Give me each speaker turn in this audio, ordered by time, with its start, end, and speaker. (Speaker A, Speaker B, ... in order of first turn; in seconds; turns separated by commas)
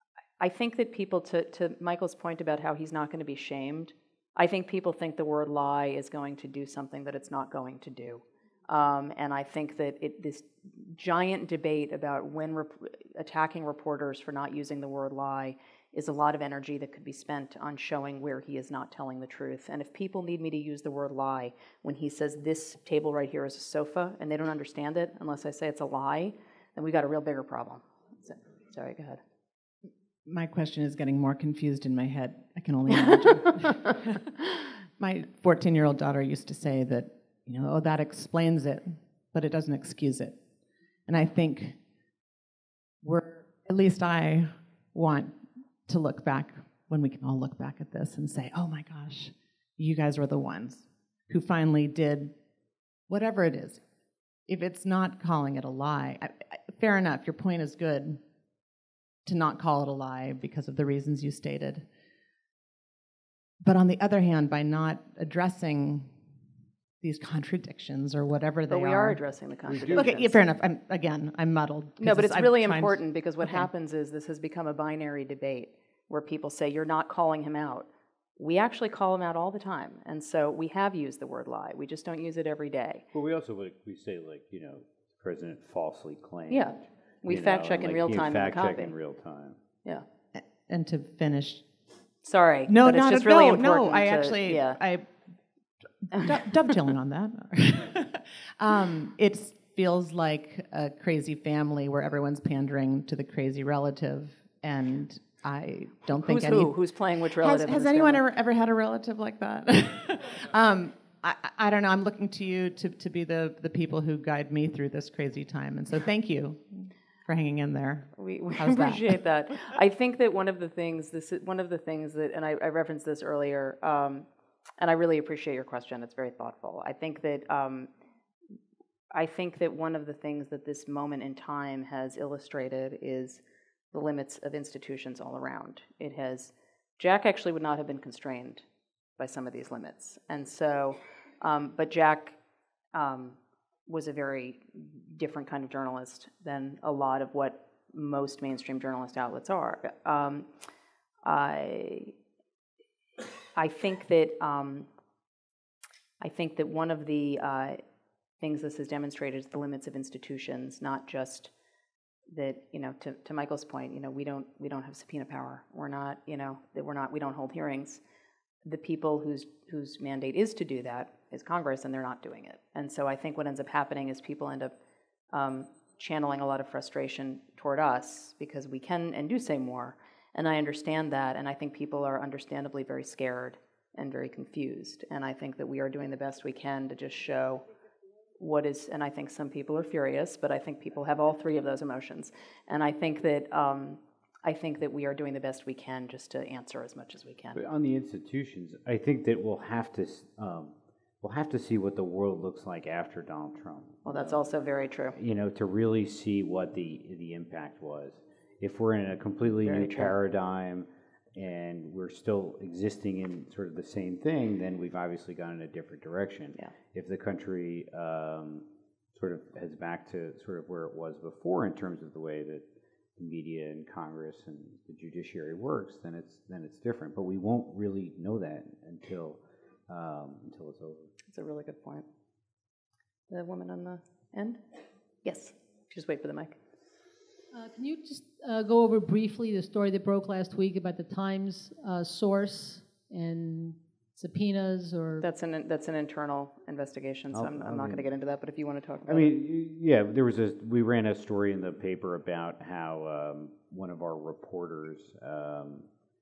Speaker A: 0.4-29.2, Speaker B: 30.2-40.4, Speaker B: 41.1-41.8, Speaker B: 43.0-52.3, Speaker B: 53.1-53.8, Speaker B: 54.5-58.2, Speaker B: 59.2-61.9, Speaker B: 63.6-66.2, Speaker B: 67.0-69.2, Speaker A: 68.7-70.4, Speaker C: 69.7-70.2, Speaker B: 69.9-73.7, Speaker A: 72.0-83.0, Speaker C: 83.1-89.6, Speaker A: 86.5-88.9, Speaker B: 90.3-91.7, Speaker A: 92.2-94.8, Speaker B: 92.7-95.1, Speaker B: 96.0-106.8, Speaker A: 106.2-108.2, Speaker B: 107.4-119.2, Speaker A: 118.2-124.3, Speaker A: 124.8-127.9, Speaker A: 129.1-138.6, Speaker A: 139.2-142.4, Speaker A: 142.9-150.5, Speaker A: 151.2-152.1, Speaker A: 153.5-154.9, Speaker A: 156.2-157.8, Speaker A: 158.4-161.5, Speaker A: 162.3-168.0, Speaker A: 168.6-174.7, Speaker A: 175.3-187.6, Speaker A: 188.4-197.6, Speaker C: 197.5-204.5, Speaker A: 204.0-205.2, Speaker C: 205.1-222.7, Speaker A: 209.6-210.1, Speaker C: 223.2-231.1, Speaker A: 231.3-232.1, Speaker A: 233.3-234.6, Speaker A: 235.2-236.6, Speaker D: 237.5-245.2, Speaker A: 245.2-249.3, Speaker C: 247.3-248.1, Speaker C: 249.1-255.9